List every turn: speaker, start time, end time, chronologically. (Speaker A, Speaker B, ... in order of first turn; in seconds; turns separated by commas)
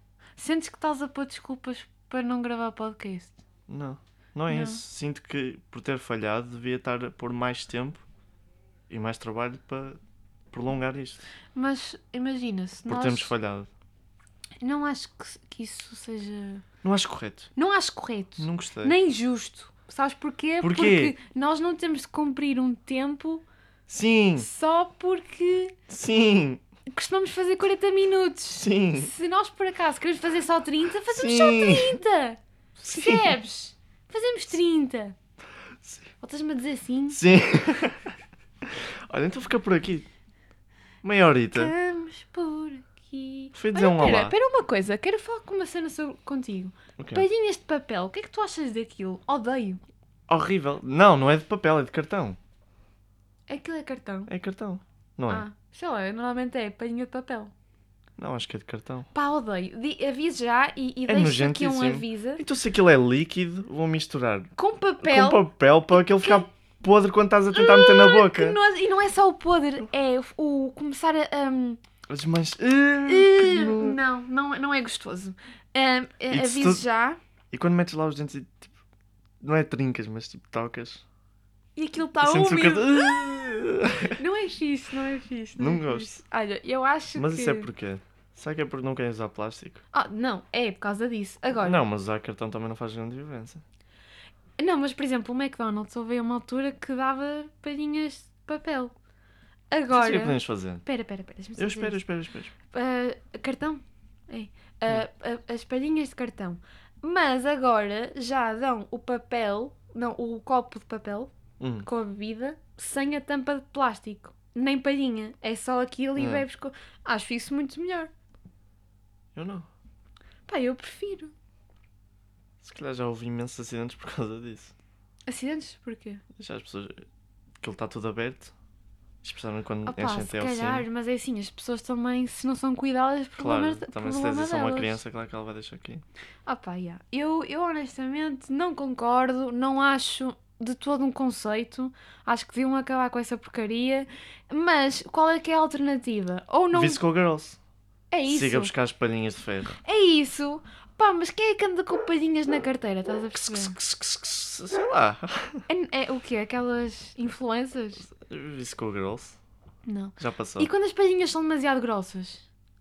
Speaker A: 0.4-3.4, Speaker B: 3.7-8.1, Speaker A: 4.5-4.8, Speaker B: 8.9-10.0, Speaker B: 10.5-11.2, Speaker A: 11.6-13.3, Speaker B: 12.9-13.7, Speaker A: 14.6-16.6, Speaker B: 16.8-17.5, Speaker A: 17.6-23.4, Speaker B: 18.4-19.0, Speaker B: 20.6-21.1, Speaker B: 23.9-24.5, Speaker A: 24.4-25.8, Speaker B: 25.9-26.6, Speaker A: 26.9-32.4, Speaker B: 28.6-29.1, Speaker B: 31.1-32.0, Speaker B: 32.8-33.4, Speaker A: 32.9-35.2, Speaker B: 35.8-36.1, Speaker A: 36.2-37.2, Speaker B: 37.1-40.1, Speaker B: 41.0-41.7, Speaker A: 41.5-49.8, Speaker B: 43.5-44.4, Speaker B: 47.0-47.2, Speaker B: 50.3-52.4, Speaker A: 53.5-54.3, Speaker B: 54.3-55.5, Speaker A: 55.3-57.5, Speaker B: 58.2-59.1, Speaker A: 59.1-62.4, Speaker B: 61.0-68.6, Speaker A: 64.6-66.5, Speaker A: 67.5-71.8, Speaker B: 72.1-74.0, Speaker A: 73.1-77.2, Speaker B: 76.3-76.8, Speaker B: 77.5-78.7, Speaker B: 79.4-81.0, Speaker A: 81.8-83.2, Speaker B: 82.2-84.2, Speaker A: 84.2-87.7, Speaker B: 85.6-86.2, Speaker B: 87.2-89.8, Speaker A: 89.9-91.8, Speaker B: 91.6-93.6, Speaker A: 94.6-98.9, Speaker A: 99.7-102.0, Speaker B: 99.9-100.8, Speaker B: 101.6-102.5, Speaker A: 102.7-111.3, Speaker B: 111.6-111.9, Speaker A: 111.8-118.1, Speaker B: 116.2-116.5, Speaker B: 119.3-119.7, Speaker A: 120.5-121.3, Speaker B: 122.6-124.7, Speaker A: 125.3-126.2, Speaker B: 126.4-127.1, Speaker B: 127.6-128.5, Speaker B: 129.2-130.9, Speaker A: 129.9-135.0, Speaker B: 133.4-136.0, Speaker A: 136.5-147.0, Speaker B: 146.7-147.6, Speaker A: 148.1-148.7, Speaker B: 148.3-149.8, Speaker A: 149.8-153.8, Speaker B: 153.3-155.7, Speaker A: 155.7-158.1, Speaker B: 158.0-159.4, Speaker A: 159.9-162.4, Speaker B: 160.2-160.7